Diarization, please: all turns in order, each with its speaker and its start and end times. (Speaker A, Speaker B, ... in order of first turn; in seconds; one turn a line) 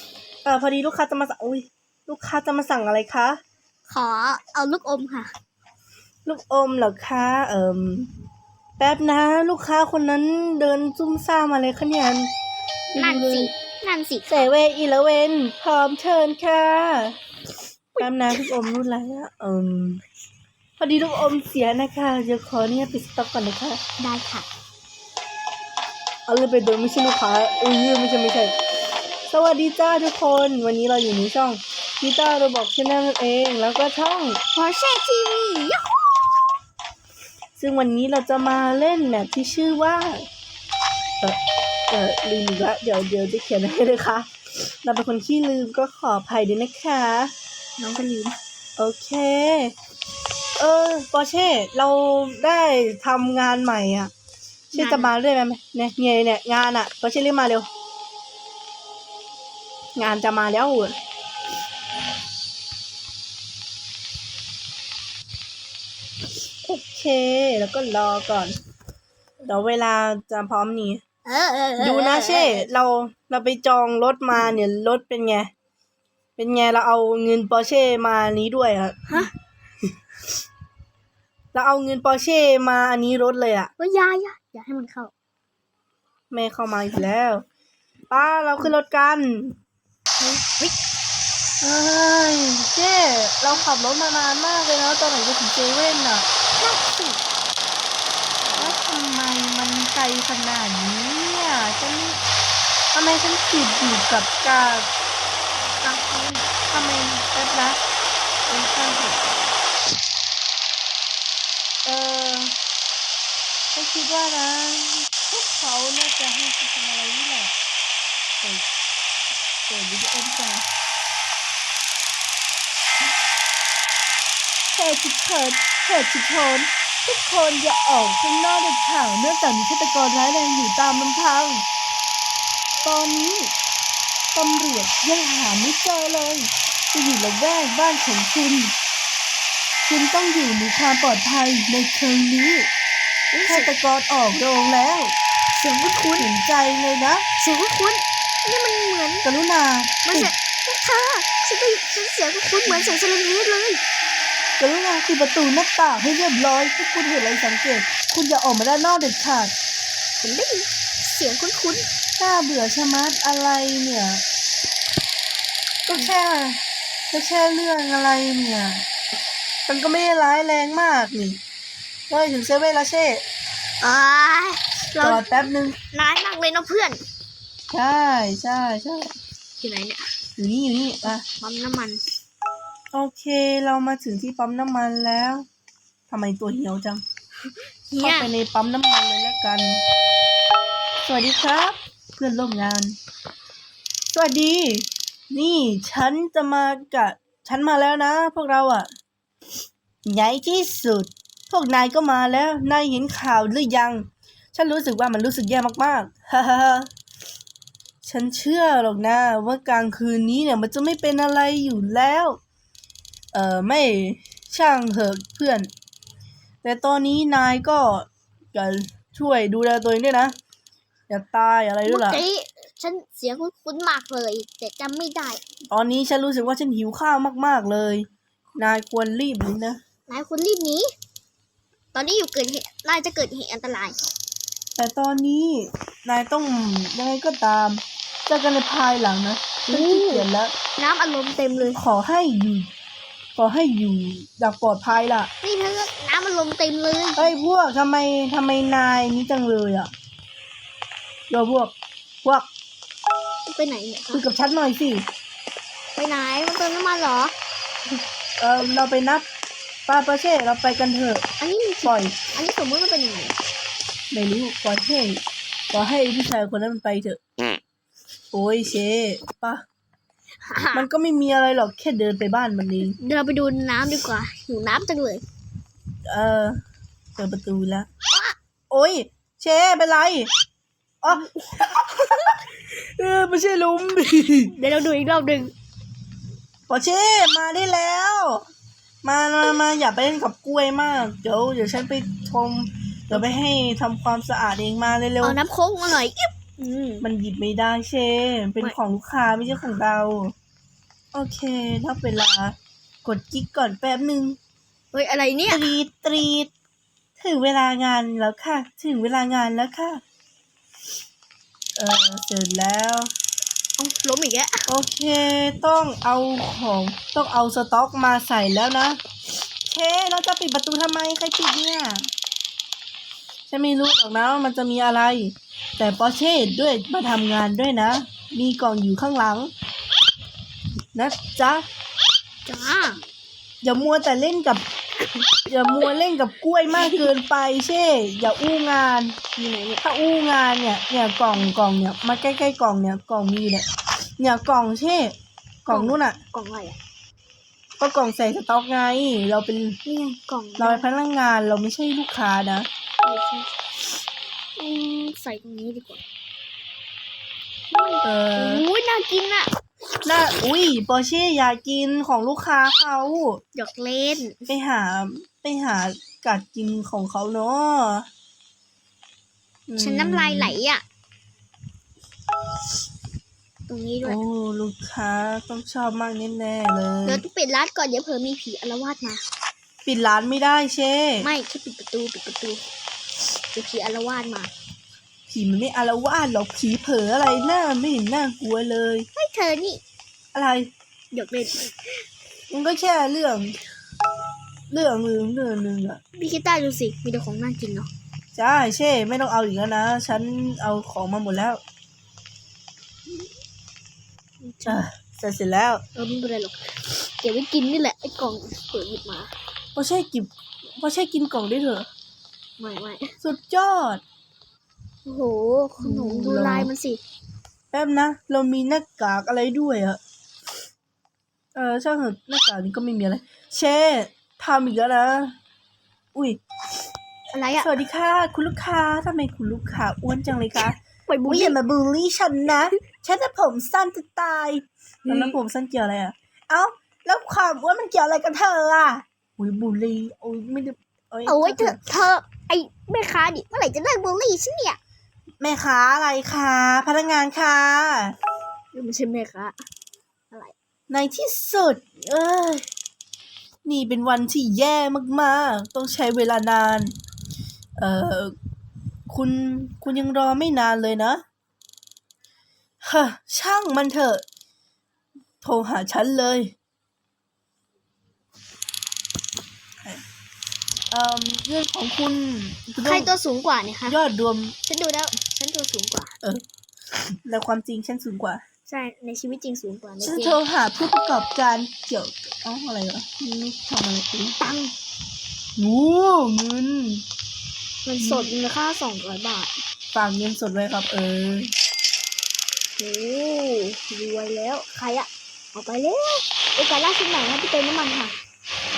Speaker A: 0.5-3.4
Speaker B: 3.9-5.3
Speaker A: 6.3-8.1
Speaker A: 8.8-12.3
Speaker A: 12.9-13.5
Speaker B: 12.9-14.5
Speaker A: 14.3-17.2
Speaker A: 18.0-20.0
Speaker A: 20.8-23.8
Speaker B: 24.0-24.5
Speaker A: 26.3-28.6
Speaker A: 29.3-34.4
Speaker B: 34.5-36.4
Speaker A: 37.6-40.3
Speaker A: 41.2-47.3
Speaker B: 47.8-48.4
Speaker A: 48.8-49.7
Speaker A: 50.6-54.1
Speaker B: 54.7-55.1
Speaker A: 54.7-57.7
Speaker A: 60.0-61.0
Speaker A: 66.6-68.5
Speaker A: 69.4-71.0
Speaker B: 71.2-72.7
Speaker A: 71.8-75.5
Speaker A: 76.4-79.3
Speaker A: 81.5-83.7
Speaker B: 83.8-85.1
Speaker A: 86.3-87.4
Speaker A: 88.1-89.6
Speaker B: 90.2-90.8
Speaker A: 91.6-96.3
Speaker B: 96.6-97.2
Speaker B: 98.5-98.7
Speaker A: 98.6-102.2
Speaker A: 102.9-104.9
Speaker A: 105.8-107.8
Speaker A: 108.5-109.3
Speaker A: 111.8-112.5
Speaker A: 113.7-117.5
Speaker A: 118.4-118.7
Speaker A: 119.7-120.7
Speaker A: 124.7-131.7
Speaker A: 132.8-133.5
Speaker A: 134.3-138.8
Speaker A: 139.8-142.7
Speaker B: 143.3-143.7
Speaker A: 143.5-145.1
Speaker B: 145.6-146.3
Speaker A: 146.2-147.2
Speaker B: 147.4-149.3
Speaker A: 149.2-150.3
Speaker B: 150.1-153.8
Speaker A: 152.7-152.9
Speaker A: 154.6-159.5
Speaker B: 160.2-161.9
Speaker A: 162.2-164.2
Speaker A: 165.9-166.6
Speaker A: 167.1-168.8
Speaker A: 169.7-171.4
Speaker A: 172.1-173.2
Speaker B: 173.8-175.3
Speaker A: 175.0-175.8
Speaker B: 175.9-177.0
Speaker A: 177.7-179.2
Speaker B: 179.6-180.1
Speaker A: 180.4-181.2
Speaker B: 181.0-182.1
Speaker A: 182.9-185.5
Speaker A: 186.1-187.0
Speaker B: 187.9-188.3
Speaker A: 188.0-189.8
Speaker A: 191.0-193.0
Speaker A: 194.1-198.9
Speaker A: 200.1-206.9
Speaker A: 208.0-212.4
Speaker A: 213.3-215.7
Speaker A: 216.6-220.4
Speaker A: 221.1-222.2
Speaker B: 221.8-225.4
Speaker A: 225.7-229.8
Speaker B: 230.1-230.9
Speaker B: 231.9-234.0
Speaker A: 234.8-240.5
Speaker B: 239.7-241.8
Speaker A: 241.8-242.7
Speaker A: 243.4-245.3
Speaker B: 245.4-247.3
Speaker A: 247.2-249.9
Speaker A: 251.3-252.5
Speaker B: 253.5-254.2
Speaker A: 254.1-255.1
Speaker B: 255.9-257.3
Speaker A: 258.4-259.3
Speaker A: 259.9-261.2
Speaker B: 261.4-263.4
Speaker A: 261.8-262.2
Speaker A: 264.1-265.2
Speaker A: 265.7-267.2
Speaker A: 268.3-269.6
Speaker B: 270.4-270.9
Speaker A: 270.7-273.0
Speaker B: 272.9-275.2
Speaker A: 276.1-276.6
Speaker A: 277.2-277.9
Speaker B: 278.1-278.4
Speaker A: 278.7-280.3
Speaker A: 281.0-284.5
Speaker B: 281.1-282.4
Speaker B: 284.5-285.5
Speaker A: 286.7-288.4
Speaker A: 289.0-295.4
Speaker B: 295.2-297.1
Speaker A: 297.0-300.4
Speaker A: 301.1-304.4
Speaker B: 304.9-305.7
Speaker A: 305.5-306.5
Speaker A: 307.2-310.0
Speaker A: 311.8-313.1
Speaker B: 313.8-314.7
Speaker A: 314.7-319.0
Speaker A: 319.7-322.1
Speaker A: 323.5-329.5
Speaker A: 330.9-331.7
Speaker B: 332.4-333.0
Speaker A: 333.6-334.6
Speaker A: 335.5-339.2
Speaker B: 336.8-337.0
Speaker B: 339.4-339.8
Speaker A: 339.8-346.2
Speaker B: 345.7-346.8
Speaker A: 347.8-349.9
Speaker B: 349.9-350.9
Speaker A: 350.6-352.7
Speaker B: 353.0-353.5
Speaker B: 354.6-356.0
Speaker B: 357.7-359.5
Speaker A: 358.0-358.6
Speaker A: 360.1-363.4
Speaker B: 363.5-364.5
Speaker A: 364.5-368.1
Speaker A: 369.7-370.6
Speaker B: 369.8-370.8
Speaker B: 373.7-374.2
Speaker A: 374.0-377.2
Speaker B: 377.1-379.2
Speaker A: 379.9-381.3
Speaker B: 381.2-382.6
Speaker B: 383.5-384.5
Speaker A: 385.3-389.1
Speaker B: 389.2-389.8
Speaker A: 390.3-390.7
Speaker B: 391.1-392.1
Speaker A: 392.5-393.6
Speaker A: 394.7-396.0
Speaker B: 396.2-397.9
Speaker A: 398.3-401.6
Speaker B: 404.4-404.8
Speaker A: 404.7-405.8
Speaker B: 405.9-409.3
Speaker A: 409.8-411.9
Speaker B: 412.6-413.2
Speaker A: 413.2-414.0
Speaker B: 415.1-417.0
Speaker A: 415.8-416.7
Speaker A: 417.7-420.0
Speaker A: 421.6-425.4
Speaker A: 426.1-426.4
Speaker B: 427.3-427.7
Speaker A: 427.6-441.9
Speaker B: 431.1-431.6
Speaker B: 435.1-435.4
Speaker B: 441.3-444.8
Speaker A: 445.4-448.2
Speaker B: 448.7-449.6
Speaker A: 450.9-452.7
Speaker A: 453.6-457.0
Speaker A: 457.8-458.4
Speaker A: 459.1-461.2
Speaker A: 462.8-464.2
Speaker A: 465.4-466.5
Speaker A: 470.9-473.1
Speaker B: 472.8-474.0
Speaker A: 473.9-474.6
Speaker B: 474.7-476.1
Speaker A: 477.2-478.4
Speaker B: 478.7-480.4
Speaker A: 480.0-484.4
Speaker B: 484.4-484.7
Speaker A: 485.6-487.0
Speaker B: 487.9-489.6
Speaker A: 488.0-488.3
Speaker A: 489.9-491.5
Speaker B: 492.8-498.2